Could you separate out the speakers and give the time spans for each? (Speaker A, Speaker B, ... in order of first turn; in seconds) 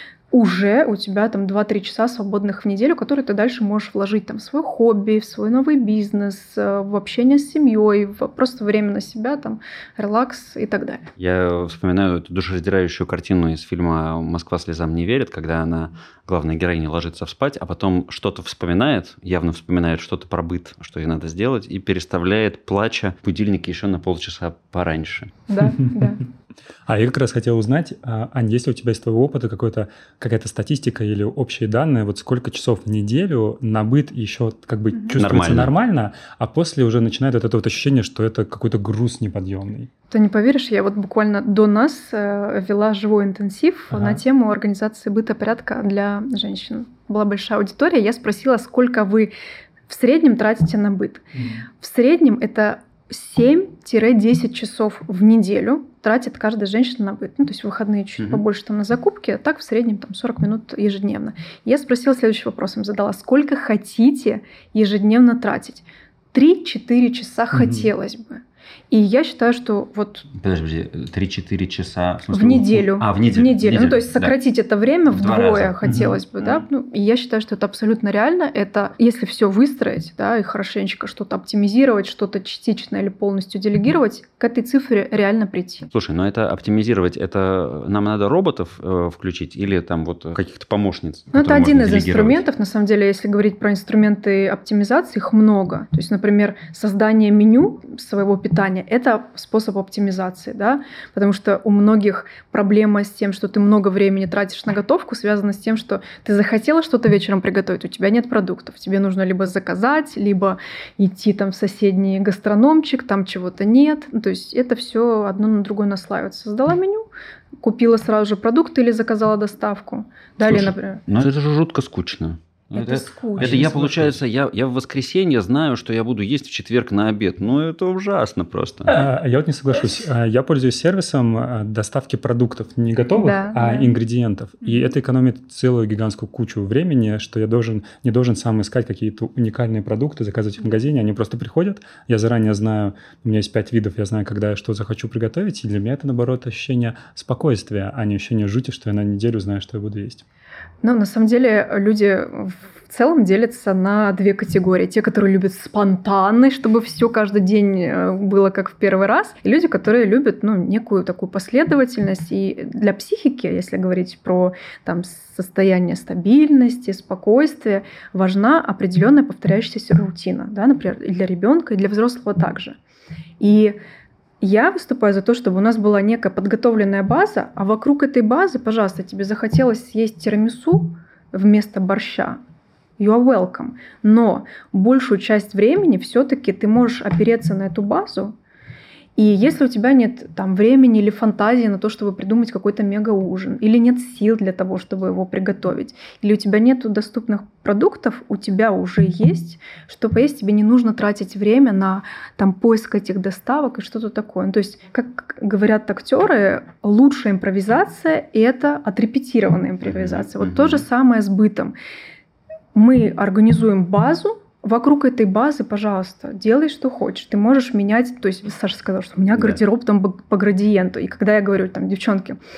Speaker A: 0.3-11.1, 25.5-26.2, 34.9-35.2, 40.1-49.3, 49.9-51.2, 51.8-70.3, 72.3-85.9, 91.3-117.1, 117.6-121.0, 122.8-123.7, 133.2-134.0, 150.8-172.8, 173.4-173.8, 174.4-182.4, 183.0-188.3, 189.2-211.8, 212.8-222.4
Speaker B: 11.2-25.4, 35.2-35.7, 70.3-74.3, 75.1-76.7, 85.9-92.4, 120.4-129.0, 209.8-210.9
Speaker C: 25.8-26.0, 26.9-39.9, 43.9-44.2, 51.4-51.6, 67.5-67.9, 75.8-76.2, 123.4-124.2, 128.9-150.2